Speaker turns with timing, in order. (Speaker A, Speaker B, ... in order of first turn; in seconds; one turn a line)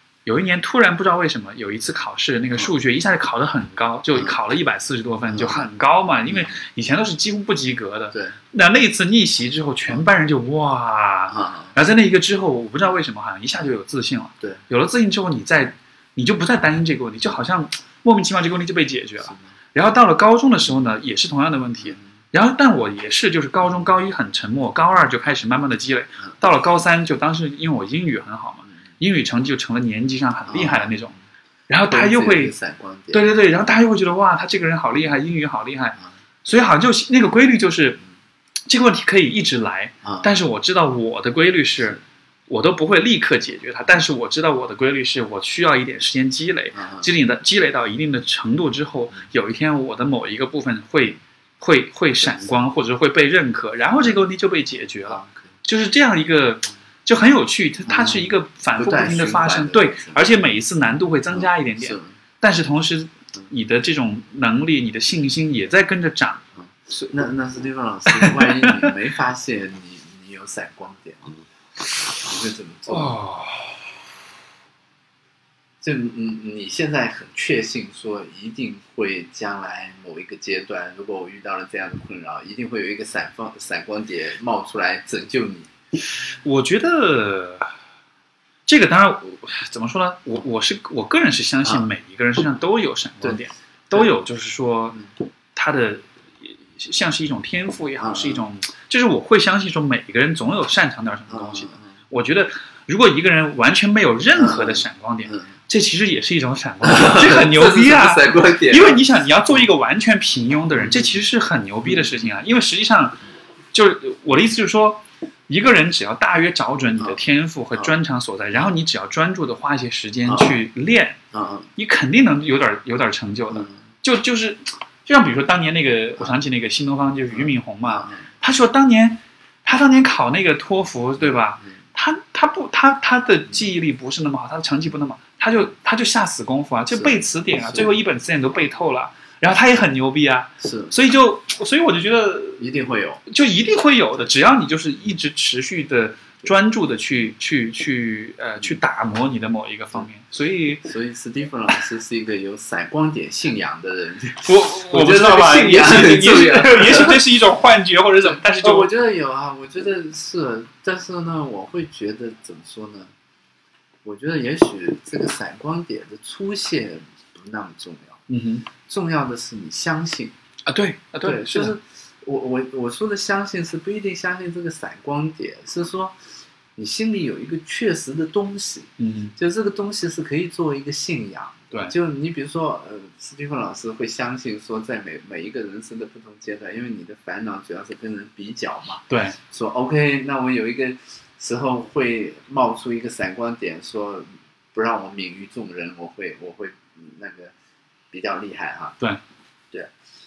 Speaker A: 0.3-31.1
Speaker B: 5.3-5.7
Speaker B: 6.3-6.5
Speaker B: 11.3-11.7
Speaker B: 30.5-30.9
Speaker A: 31.7-32.5
Speaker B: 31.9-33.3
Speaker A: 33.1-38.0
Speaker A: 38.7-66.4
Speaker B: 46.8-47.1
Speaker B: 55.1-55.4
Speaker B: 57.9-60.2
Speaker B: 61.3-62.1
Speaker B: 66.7-71.3
Speaker A: 68.1-68.9
Speaker B: 72.2-73.1
Speaker A: 72.9-73.8
Speaker B: 75.8-85.7
Speaker A: 86.2-87.7
Speaker A: 88.7-95.0
Speaker A: 95.5-113.2
Speaker B: 98.0-98.4
Speaker B: 101.3-101.8
Speaker B: 104.4-105.4
Speaker B: 106.8-109.0
Speaker A: 113.7-121.2
Speaker B: 120.3-120.5
Speaker B: 121.3-121.7
Speaker A: 121.8-142.7
Speaker B: 127.3-128.2
Speaker B: 140.6-140.9
Speaker B: 142.6-143.2
Speaker A: 143.3-150.9
Speaker B: 150.8-157.2
Speaker A: 154.4-158.9
Speaker B: 158.2-163.1
Speaker B: 164.0-168.2
Speaker A: 168.3-168.7
Speaker B: 168.8-170.3
Speaker A: 170.7-171.8
Speaker B: 171.2-176.2
Speaker B: 176.8-197.5
Speaker A: 179.0-179.3
Speaker A: 189.1-189.4
Speaker B: 198.1-199.0